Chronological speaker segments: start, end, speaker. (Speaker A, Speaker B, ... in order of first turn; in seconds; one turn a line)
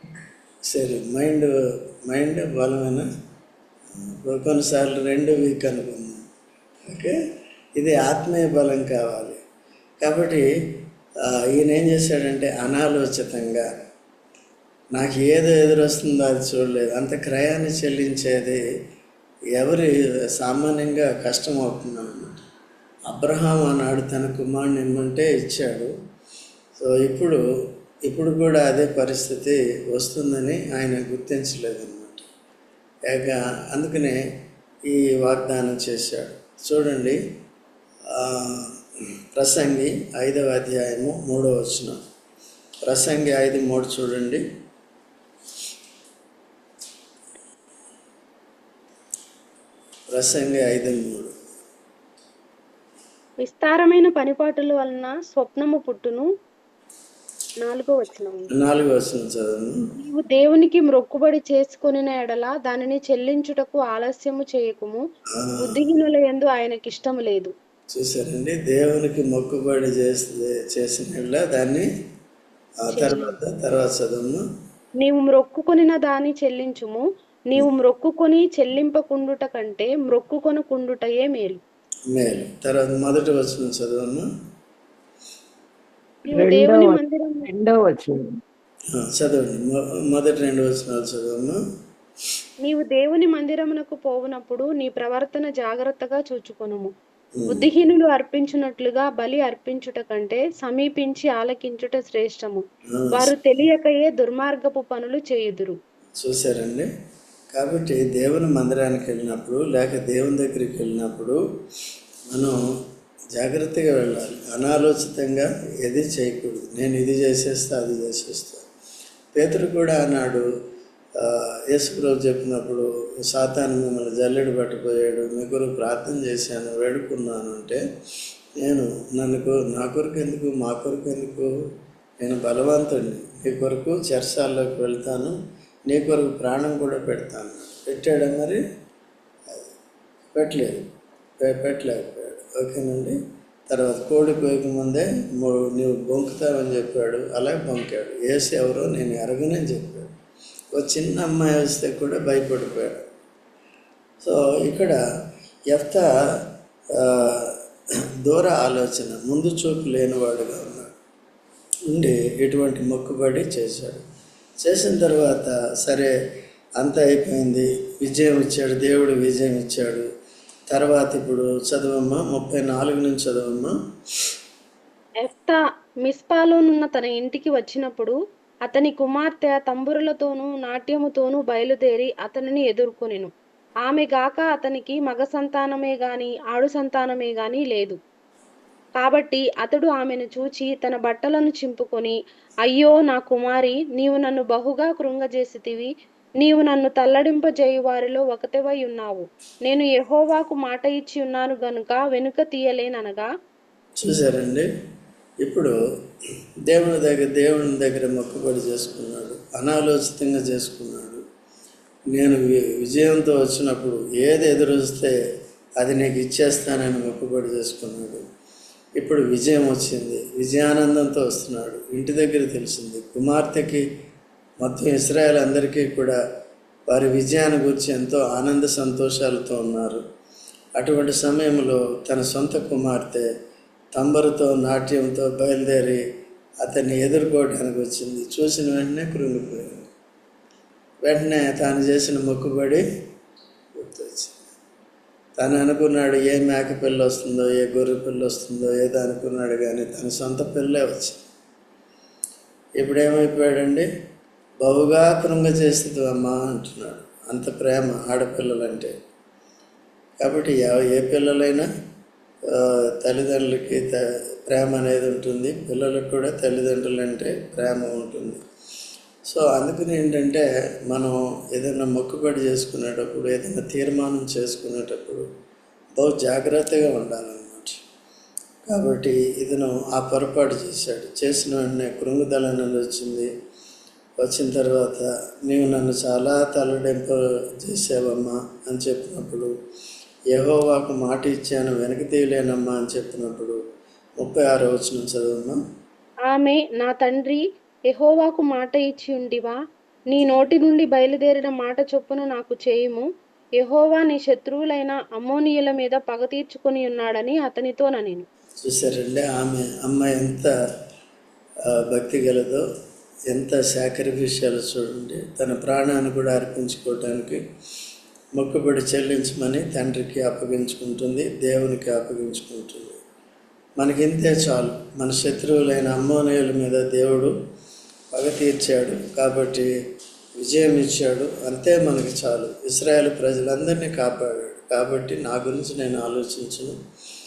Speaker A: 0.7-1.5
Speaker A: 2.1-3.1
Speaker A: 4.0-6.2
Speaker A: 6.8-7.2
Speaker A: 7.8-9.4
Speaker A: 10.0-10.4
Speaker A: 11.5-13.7
Speaker A: 14.9-18.6
Speaker A: 19.6-22.4
Speaker A: 23.1-25.9
Speaker A: 26.8-27.4
Speaker A: 28.1-32.3
Speaker A: 33.1-34.2
Speaker A: 34.9-37.2
Speaker A: 38.2-38.7
Speaker A: 39.4-42.0
Speaker A: 42.9-44.4
Speaker A: 50.1-51.4
Speaker B: 53.4-56.3
Speaker B: 57.6-58.5
Speaker A: 58.5-59.8
Speaker B: 60.0-65.0
Speaker A: 65.4-65.8
Speaker B: 65.6-67.5
Speaker A: 67.9-71.9
Speaker A: 72.8-74.4
Speaker B: 72.9-73.3
Speaker B: 75.0-81.6
Speaker A: 82.1-84.3
Speaker B: 86.2-87.5
Speaker C: 86.3-88.3
Speaker A: 89.0-91.6
Speaker B: 92.6-96.9
Speaker A: 97.4-97.7
Speaker B: 97.5-105.8
Speaker A: 102.9-103.3
Speaker A: 106.2-106.9
Speaker A: 107.5-111.4
Speaker A: 113.3-118.7
Speaker A: 119.4-120.5
Speaker A: 121.2-127.8
Speaker A: 128.6-131.5
Speaker A: 132.2-135.4
Speaker A: 135.9-138.6
Speaker A: 140.3-140.9
Speaker A: 141.4-143.2
Speaker A: 143.7-150.1
Speaker A: 150.8-153.0
Speaker A: 154.2-155.0
Speaker A: 155.7-156.1
Speaker A: 157.0-157.5
Speaker A: 158.2-160.9
Speaker A: 161.9-164.0
Speaker A: 164.6-166.1
Speaker A: 166.8-170.1
Speaker A: 170.7-173.7
Speaker B: 175.2-178.2
Speaker B: 178.7-183.3
Speaker B: 183.8-188.0
Speaker B: 189.0-192.2
Speaker B: 192.7-203.3
Speaker A: 204.0-204.7
Speaker A: 205.4-205.7
Speaker A: 206.7-211.2
Speaker A: 212.1-215.2
Speaker A: 215.8-218.2
Speaker A: 219.0-223.8
Speaker A: 224.6-226.2
Speaker A: 226.9-230.0
Speaker A: 230.8-233.3
Speaker A: 234.0-236.0
Speaker A: 236.6-239.9
Speaker A: 241.1-242.8
Speaker A: 243.8-244.4
Speaker A: 245.4-251.2
Speaker A: 252.8-253.9
Speaker A: 254.6-258.9
Speaker A: 260.2-261.7
Speaker A: 262.5-268.4
Speaker A: 269.3-275.2
Speaker A: 276.0-277.8
Speaker A: 278.7-283.3
Speaker A: 284.2-289.5
Speaker A: 290.3-293.6
Speaker A: 294.2-295.6
Speaker B: 296.3-299.6
Speaker B: 300.1-303.1
Speaker B: 303.6-308.3
Speaker A: 308.6-310.5
Speaker A: 311.7-312.6
Speaker A: 313.3-317.4
Speaker A: 318.4-323.0
Speaker A: 323.8-327.3
Speaker A: 328.1-329.7
Speaker A: 330.4-336.8